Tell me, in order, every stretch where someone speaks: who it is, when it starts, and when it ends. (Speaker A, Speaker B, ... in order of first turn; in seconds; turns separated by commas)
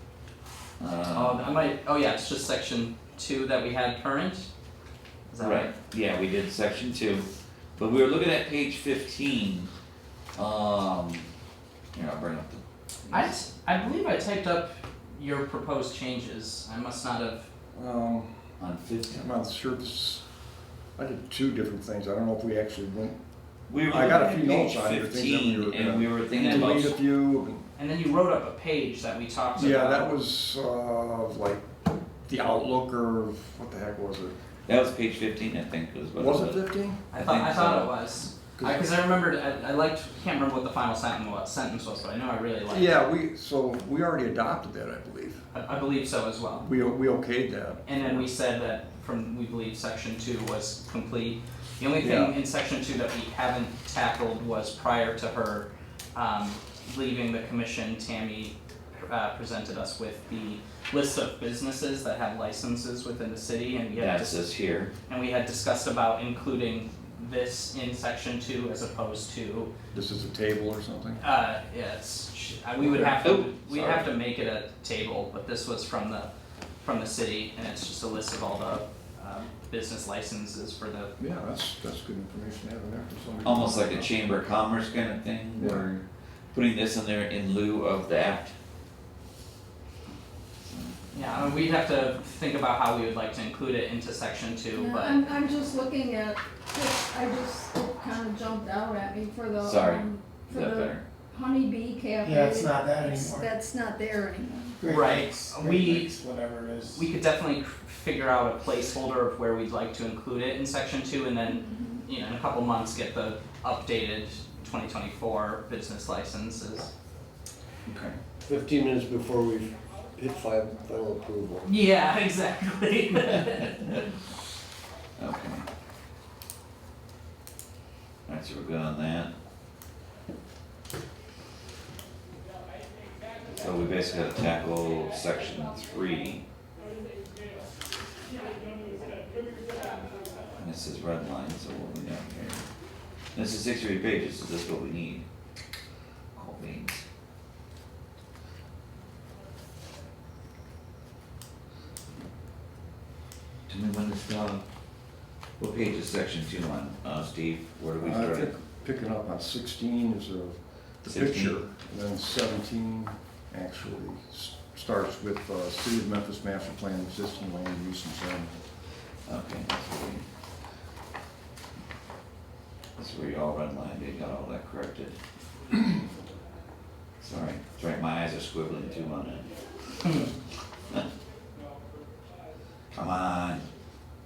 Speaker A: 0.8-1.6, Speaker B: 1.1-4.5, Speaker B: 5.3-5.7, Speaker A: 5.4-9.7, Speaker A: 10.3-11.3, Speaker A: 11.9-13.4, Speaker B: 13.1-17.5, Speaker C: 17.7-18.3, Speaker A: 18.6-19.2, Speaker C: 19.1-20.2, Speaker C: 20.9-23.2, Speaker A: 23.7-26.9, Speaker C: 23.9-27.6, Speaker B: 26.5-26.9, Speaker B: 27.8-30.1, Speaker C: 29.6-31.7, Speaker C: 32.3-34.3, Speaker A: 34.6-38.0, Speaker C: 36.2-37.0, Speaker B: 37.1-42.9, Speaker C: 38.5-38.9, Speaker C: 42.7-45.4, Speaker B: 45.5-46.7, Speaker C: 46.6-48.2, Speaker B: 47.9-64.4, Speaker C: 52.0-52.3, Speaker A: 64.0-64.9, Speaker B: 65.1-69.7, Speaker C: 69.9-71.2, Speaker B: 71.2-76.3, Speaker C: 72.8-73.2, Speaker A: 73.2-74.1, Speaker B: 76.8-81.1, Speaker C: 81.2-84.1, Speaker A: 83.4-88.5, Speaker C: 85.6-85.8, Speaker A: 90.6-91.6, Speaker B: 91.1-95.2, Speaker D: 94.7-104.8, Speaker A: 99.6-101.0, Speaker E: 102.2-103.5, Speaker E: 104.8-107.1, Speaker B: 104.9-106.1, Speaker B: 106.9-116.9, Speaker D: 111.6-111.9, Speaker C: 117.9-118.2, Speaker F: 118.4-121.7, Speaker B: 121.7-123.8, Speaker A: 123.6-124.0, Speaker A: 125.2-125.7, Speaker A: 128.3-129.3, Speaker A: 133.4-136.4, Speaker A: 140.6-142.7, Speaker A: 143.3-145.2, Speaker A: 146.3-147.0, Speaker A: 153.7-154.6, Speaker A: 155.6-158.5, Speaker C: 158.0-168.5, Speaker A: 161.0-161.6, Speaker A: 169.2-170.2, Speaker A: 173.0-175.2, Speaker A: 177.2-180.3, Speaker A: 182.9-183.7